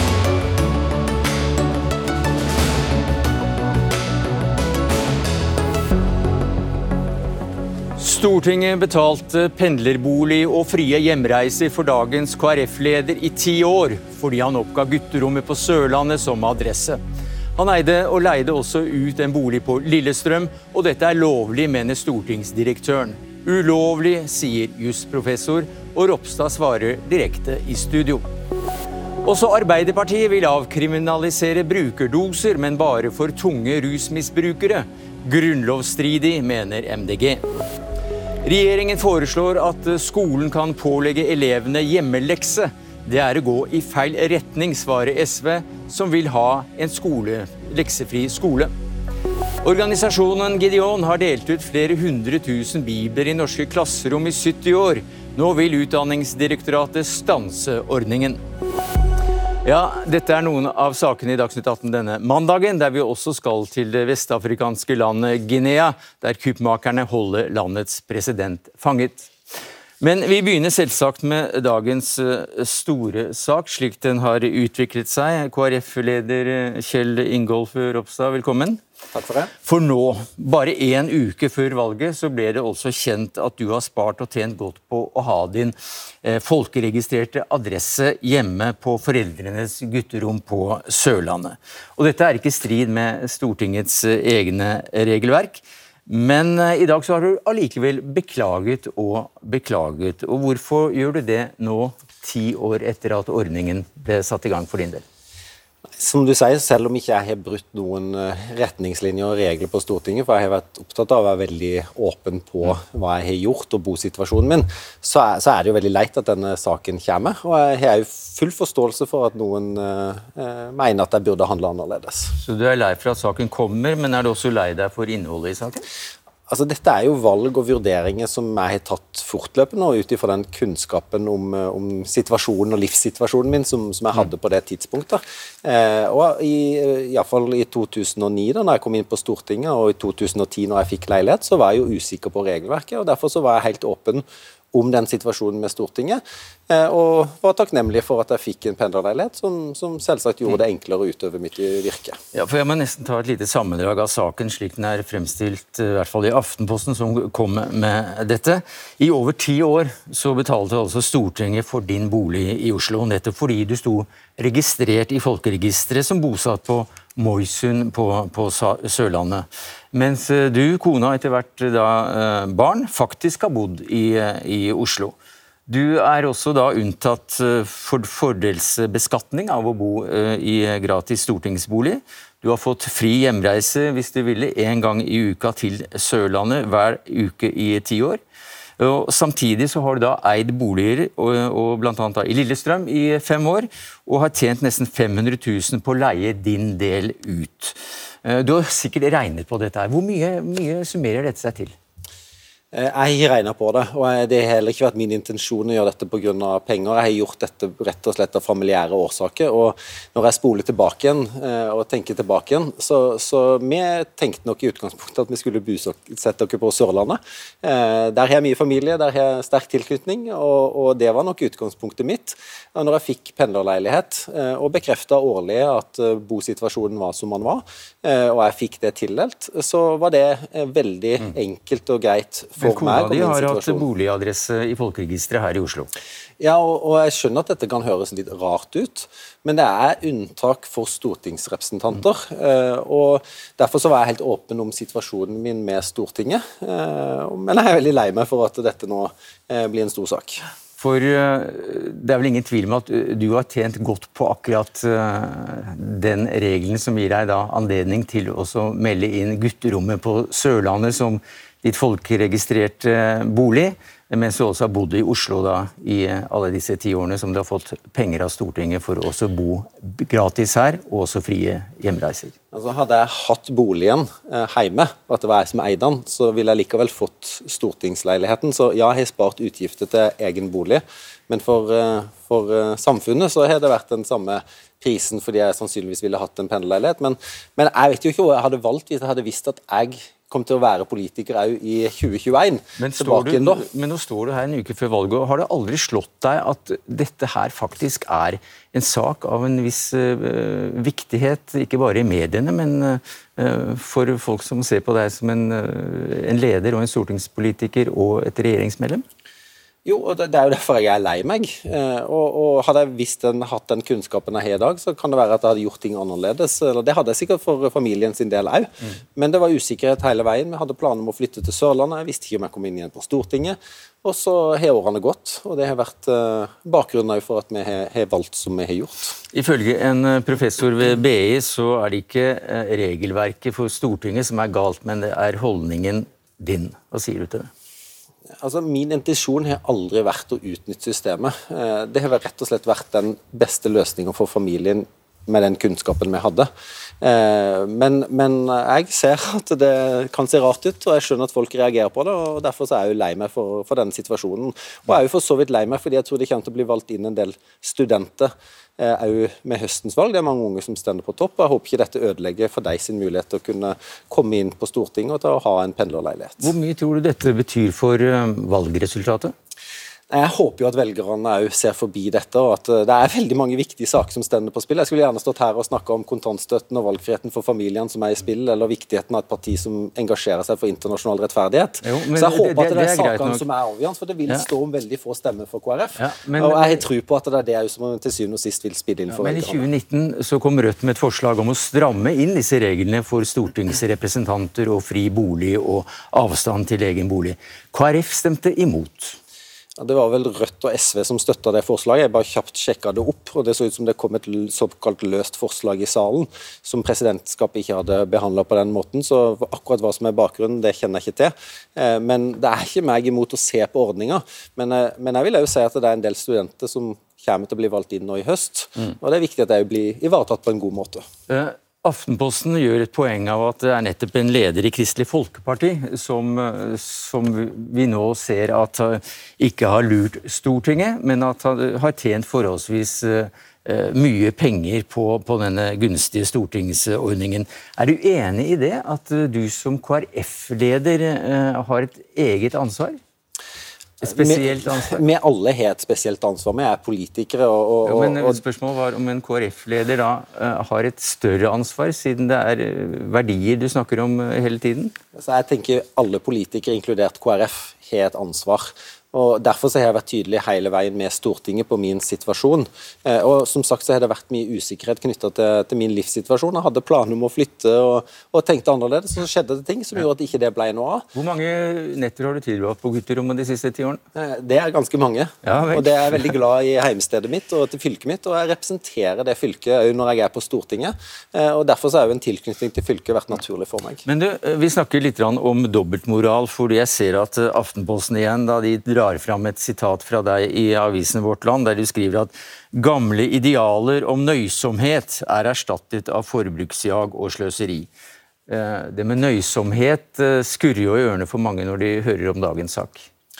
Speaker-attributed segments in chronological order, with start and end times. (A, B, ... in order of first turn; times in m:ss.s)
0:08.0-0:17.0 A
0:17.6-0:28.2 A
0:29.2-0:37.4 A
0:38.4-0:48.7 A
0:49.6-0:58.4 A
0:59.6-1:09.3 A
1:10.0-1:18.8 A
1:19.1-1:19.5 B
1:19.6-1:45.0 A
1:46.0-2:02.3 B
2:02.4-2:05.8 A
2:06.5-2:32.2 B
2:32.3-2:55.1 A
2:55.7-3:08.2 A
3:08.8-3:21.7 A
3:22.7-3:53.8 B
3:52.6-3:55.9 A
3:56.4-4:10.4 B
4:10.8-4:32.3 A
4:32.5-4:53.6 B
4:52.8-5:09.0 A
5:09.8-5:29.2 B
5:29.3-5:37.5 A
5:38.4-5:46.5 B
5:47.0-6:06.5 B
6:06.4-6:09.3 A
6:10.1-6:29.7 B
6:21.8-6:23.4 A
6:26.0-6:26.8 A
6:29.2-6:39.2 A
6:39.8-7:01.0 B
7:01.3-7:23.0 A
7:24.0-7:25.0 A
7:24.0-7:28.4 B
7:27.8-7:34.9 A
7:35.1-7:51.0 B
7:51.1-7:54.0 A
7:54.1-8:04.0 B
7:55.4-7:56.3 A
8:04.0-8:17.9 A
8:18.5-8:23.1 A